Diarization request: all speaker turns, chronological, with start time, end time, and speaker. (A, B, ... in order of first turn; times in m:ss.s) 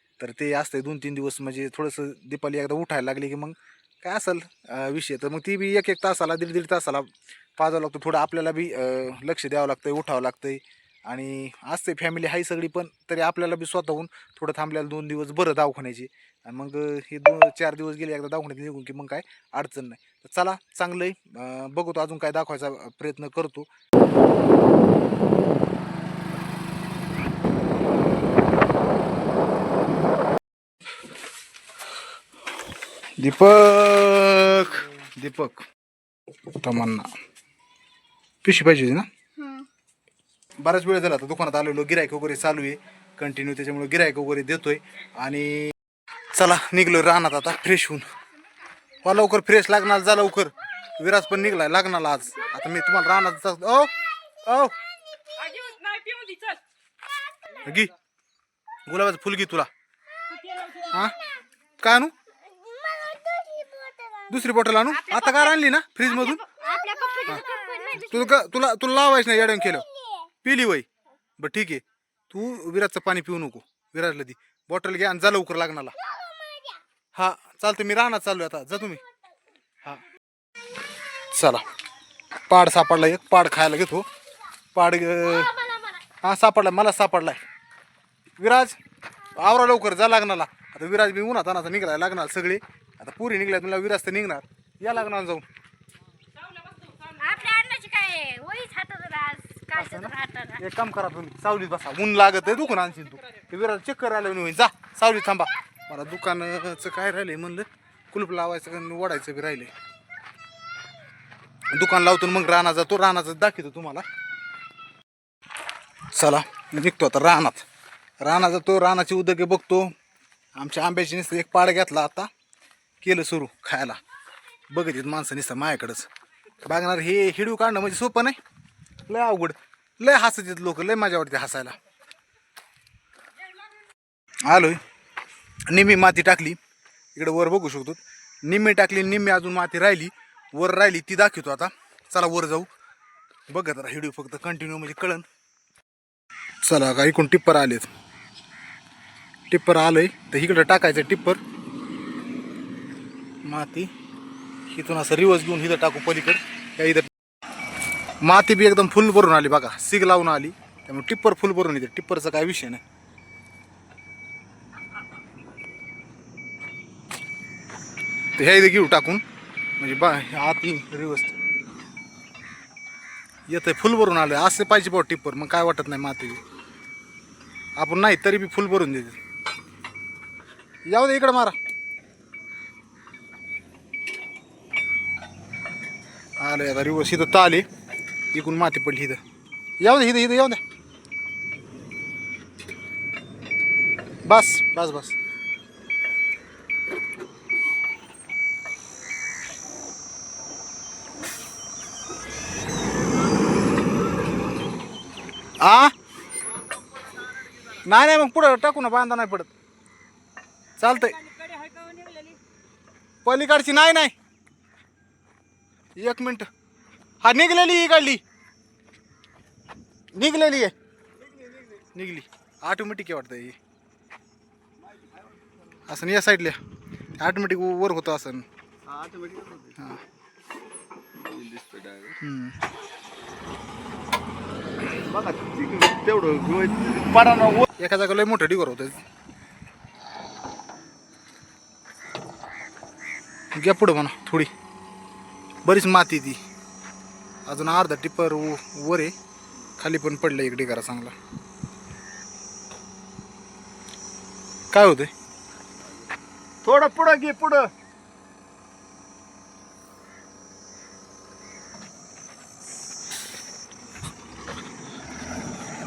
0:00.2-0:23.7 A
0:33.2-0:35.7 A
0:36.5-0:37.1 A
0:38.4-0:39.6 A
0:40.6-0:45.7 A
0:46.3-0:48.1 A
0:49.0-0:54.8 A
0:55.2-0:56.6 B
0:57.6-0:57.9 A
0:58.9-0:59.7 A
1:00.3-1:00.8 B
1:00.8-1:01.2 A
1:01.8-1:02.1 A
1:02.5-1:04.3 B
1:04.3-1:06.5 A
1:06.4-1:08.3 B
1:07.3-1:09.9 A
1:10.0-1:10.2 B
1:10.4-1:10.9 A
1:11.4-1:16.0 A
1:16.1-1:16.8 B
1:17.1-1:19.0 A
1:21.3-1:21.6 A
1:22.5-1:24.1 A
1:24.8-1:25.6 A
1:25.6-1:26.0 B
1:26.2-1:27.4 A
1:28.4-1:28.8 A
1:29.4-1:35.4 A
1:36.6-1:40.6 B
1:39.7-1:49.7 A
1:51.7-1:54.0 A
1:56.1-1:57.7 A
1:58.2-1:59.9 A
2:00.6-2:02.3 A
2:03.0-2:04.0 A
2:04.7-2:06.1 A
2:06.6-2:08.4 A
2:09.1-2:11.8 A
2:14.5-2:14.8 A
2:15.7-2:16.6 A
2:17.2-2:22.7 A
2:23.5-2:25.3 A
2:26.6-2:27.9 A
2:29.5-2:31.4 A
2:33.4-2:33.9 A
2:34.7-2:37.1 A
2:38.2-2:42.8 A
2:48.4-2:49.2 A
2:49.8-2:51.3 A
2:53.5-2:56.4 A
2:57.8-2:59.2 A
3:00.9-3:01.6 A
3:06.4-3:07.7 A
3:08.3-3:09.2 A
3:09.8-3:10.6 A
3:14.3-3:15.2 A
3:25.6-3:25.9 A
3:27.8-3:29.5 A
3:30.8-3:31.2 A
3:31.7-3:32.4 B
3:33.2-3:34.2 A
3:36.0-3:36.5 A
3:37.2-3:38.2 A
3:40.1-3:40.7 A
3:41.9-3:43.6 A
3:45.9-3:46.6 A
3:47.2-3:48.5 A
3:48.9-3:49.8 C
3:51.2-3:52.2 C
3:52.2-3:52.6 A
3:55.0-3:57.6 C
3:57.8-3:59.0 A
4:03.5-4:04.5 A
4:05.6-4:06.4 A
4:07.5-4:09.1 A
4:09.8-4:11.2 A
4:14.7-4:15.1 A
4:16.6-4:17.7 C